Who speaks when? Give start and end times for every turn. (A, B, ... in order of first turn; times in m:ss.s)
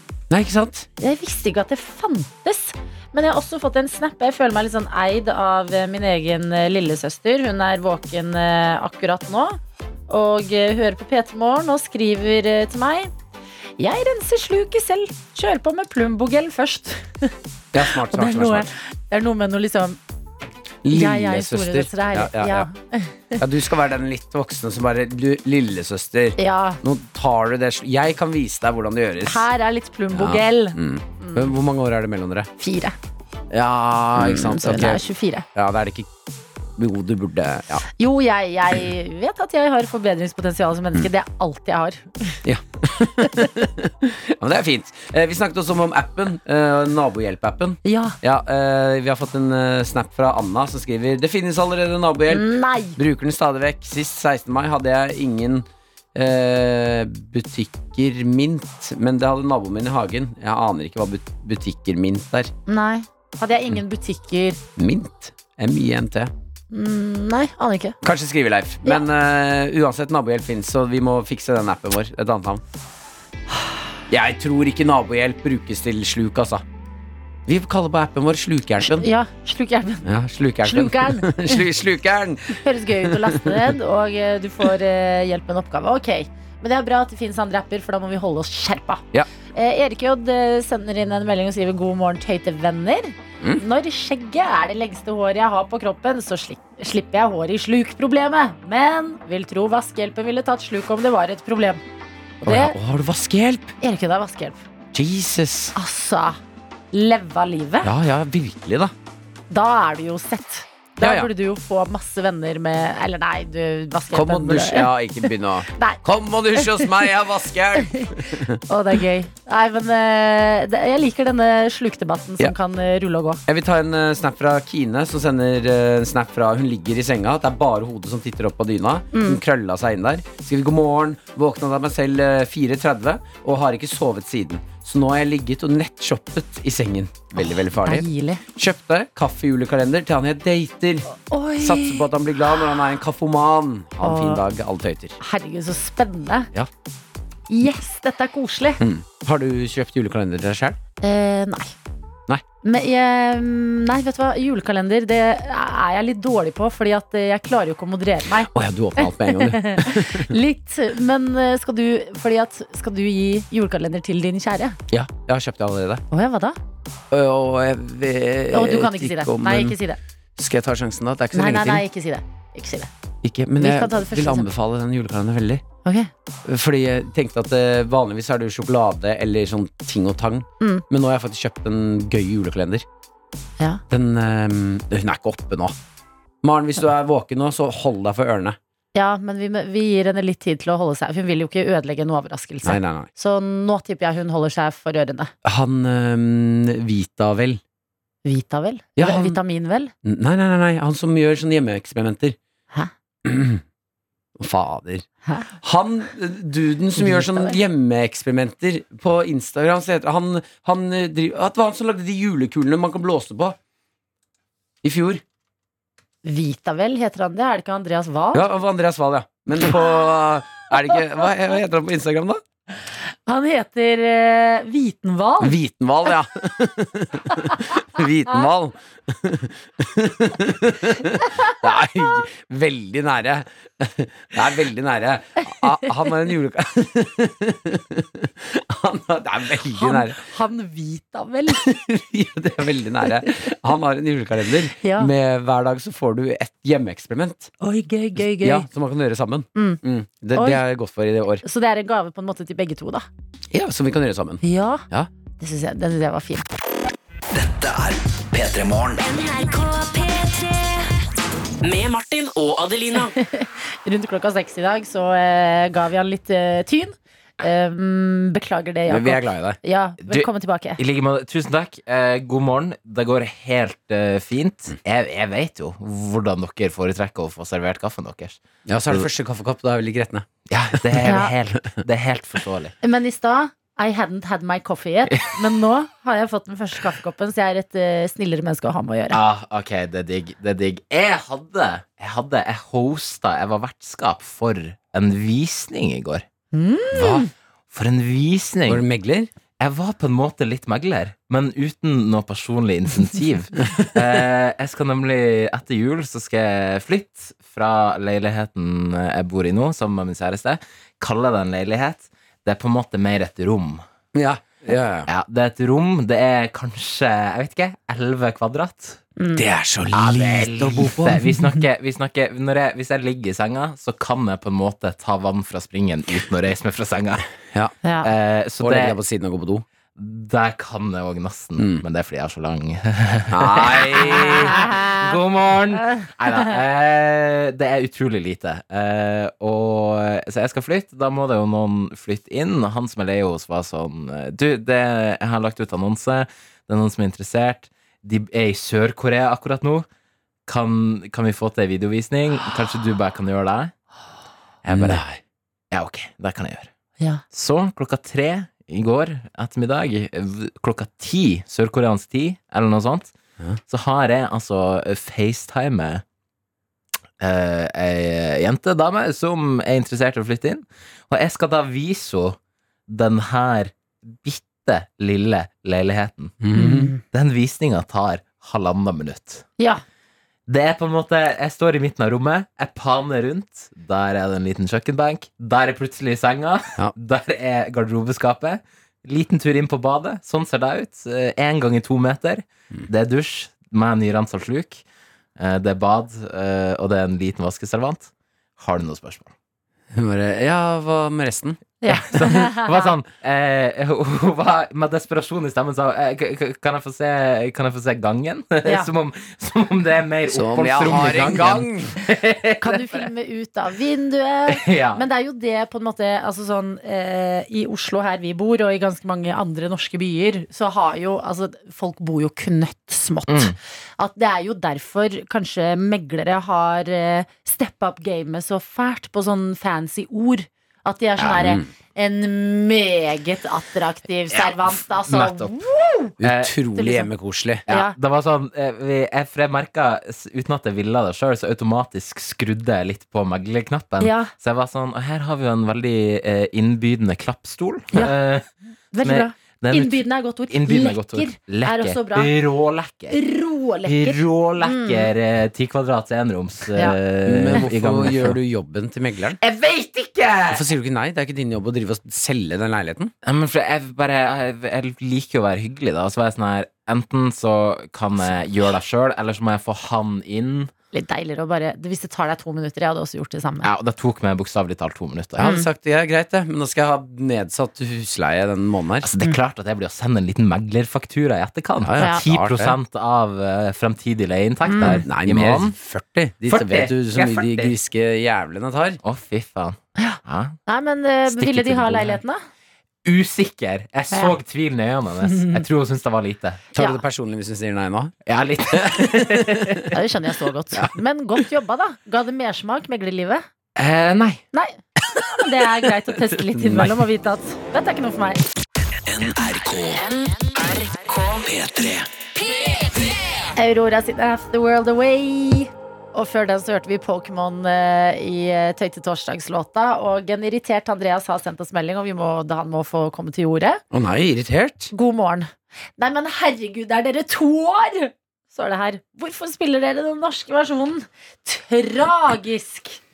0:00.3-0:00.9 A
0:01.0-0:13.1 B
0:13.8-0:20.0 B
0:17.7-0:18.7 A
0:20.8-0:22.7 A
0:20.9-0:23.4 B
0:23.4-0:29.5 A
0:26.4-0:26.8 B
0:29.3-0:31.5 B
0:30.1-0:32.5 A
0:32.6-0:33.0 B
0:33.5-0:35.0 A
0:34.2-0:35.4 B
0:35.6-0:36.1 A
0:36.8-0:37.8 A
0:38.0-0:42.4 B
0:42.4-1:02.5 A
0:47.8-0:48.2 B
0:52.3-0:53.0 B
1:02.7-1:04.6 B
1:04.8-1:06.3 A
1:06.7-1:08.0 B
1:08.0-1:12.6 A
1:14.1-1:16.6 A
1:17.5-1:19.1 A
1:18.8-1:20.1 B
1:20.0-1:23.7 A
1:20.6-1:21.6 B
1:22.6-1:41.8 B
1:42.4-1:42.8 B
1:42.5-1:43.7 A
1:43.8-1:44.6 B
1:44.9-1:45.7 A
1:45.8-1:46.4 B
1:46.9-1:47.9 B
1:47.8-1:48.9 A
1:49.5-1:56.0 B
1:51.0-1:51.3 A
1:54.1-1:58.6 A
1:56.6-1:57.0 B
1:57.8-2:03.4 B
2:03.5-2:21.1 A
2:09.1-2:09.4 B
2:17.4-2:18.4 B
2:21.1-2:22.6 B
2:21.6-2:25.2 A
2:24.0-2:24.4 B
2:25.2-2:26.5 B
2:27.5-2:28.8 B
2:28.8-2:30.8 A
2:31.0-2:31.8 B
2:32.6-2:44.8 B
2:38.5-2:40.3 A
2:44.9-2:46.0 A
2:46.1-2:46.6 B
2:47.1-2:49.8 A
2:48.5-2:50.0 B
2:50.4-2:51.8 A
2:51.3-2:52.9 B
2:53.2-2:55.6 A
2:53.6-2:54.5 B
2:55.8-2:56.1 B
2:56.5-3:02.8 A
3:03.9-3:05.8 A
3:06.4-3:08.6 A
3:09.0-3:15.3 B
3:12.6-3:13.1 A
3:15.4-3:17.6 A
3:18.2-3:19.9 B
3:19.0-3:19.4 A
3:20.0-3:22.4 A
3:23.2-3:23.6 A
3:24.4-3:25.1 A
3:25.3-3:25.5 B
3:25.6-3:33.6 A
3:27.0-3:27.6 B
3:34.8-3:35.2 A
3:36.2-3:38.4 B
3:38.3-3:42.4 A
3:39.5-3:40.1 B
3:43.3-3:45.6 B
3:45.4-4:00.3 A
3:59.7-4:01.7 B
4:01.5-4:07.5 A
4:04.8-4:05.1 B
4:07.6-4:08.7 B
4:08.2-4:11.4 A
4:09.6-4:09.8 B
4:10.4-4:10.6 B
4:11.4-4:13.1 B
4:13.5-4:15.1 A
4:14.4-4:14.8 B
4:15.4-4:16.5 B
4:17.3-4:19.1 C
4:19.0-4:20.9 D
4:21.6-4:23.1 D
4:23.1-4:30.8 B
4:28.9-4:29.6 A
4:30.0-4:39.1 E
4:38.7-4:41.1 A
4:40.5-4:42.8 E
4:41.0-4:41.3 B
4:42.8-4:49.2 B
4:49.1-4:56.2 E
4:56.5-4:57.3 B
4:57.0-4:57.3 A
4:57.7-4:58.8 E
4:58.7-4:59.3 A
4:59.6-5:13.8 E
5:14.1-5:15.1 A
5:15.1-5:19.0 E
5:19.2-5:19.4 B
5:19.4-5:21.3 A
5:19.9-5:27.2 E
5:27.8-5:28.1 B
5:28.0-5:29.0 E
5:28.6-5:29.6 A
5:30.0-5:49.9 E
5:31.6-5:31.8 A
5:33.3-5:34.6 A
5:34.5-5:35.0 B
5:50.5-5:53.7 E
5:54.6-5:55.0 E
5:54.7-5:55.2 A
5:55.7-5:56.7 E
5:57.3-6:03.2 E
6:03.7-6:06.0 E
6:07.2-6:12.4 E
6:12.9-6:16.4 E
6:16.4-6:16.9 A
6:16.6-6:17.0 B
6:17.0-6:19.5 E
6:20.5-6:34.8 E
6:35.4-6:39.3 E
6:39.9-6:41.6 A
6:41.8-6:43.0 B
6:41.9-6:52.9 E
6:48.6-6:48.9 B
6:50.3-6:52.0 A
6:52.6-7:16.1 B
6:54.5-6:55.0 E
7:03.3-7:03.6 E
7:11.4-7:11.7 A
7:14.3-7:15.5 E
7:16.2-7:17.6 A
7:16.2-7:16.5 E
7:16.8-7:17.1 B
7:17.7-7:28.5 E
7:17.7-7:18.0 B
7:24.0-7:24.3 B
7:28.9-7:32.3 B
7:29.0-7:33.2 E
7:33.1-7:35.1 B
7:33.8-7:38.4 E
7:37.2-7:39.4 A
7:39.4-7:40.7 E
7:40.5-7:43.1 A
7:43.2-7:50.7 E
7:50.9-7:53.7 B
7:53.6-7:55.5 E
7:55.4-7:59.1 A
7:59.0-8:05.8 E
8:01.8-8:02.8 A
8:04.7-8:05.0 B
8:04.8-8:09.0 A
8:06.4-8:07.8 E
8:09.0-8:10.6 E
8:10.0-8:12.4 B
8:11.3-8:12.2 E
8:13.0-8:16.6 E
8:15.3-8:15.6 B
8:16.8-8:18.2 A
8:18.3-8:20.0 E
8:18.7-8:19.9 A
8:19.9-8:23.4 B
8:23.8-8:24.4 E
8:24.5-8:28.4 B
8:26.3-8:27.0 A
8:29.1-8:30.1 C
8:31.4-8:32.1 C
8:33.5-8:43.8 B
8:43.9-8:44.9 A
8:44.9-8:53.0 B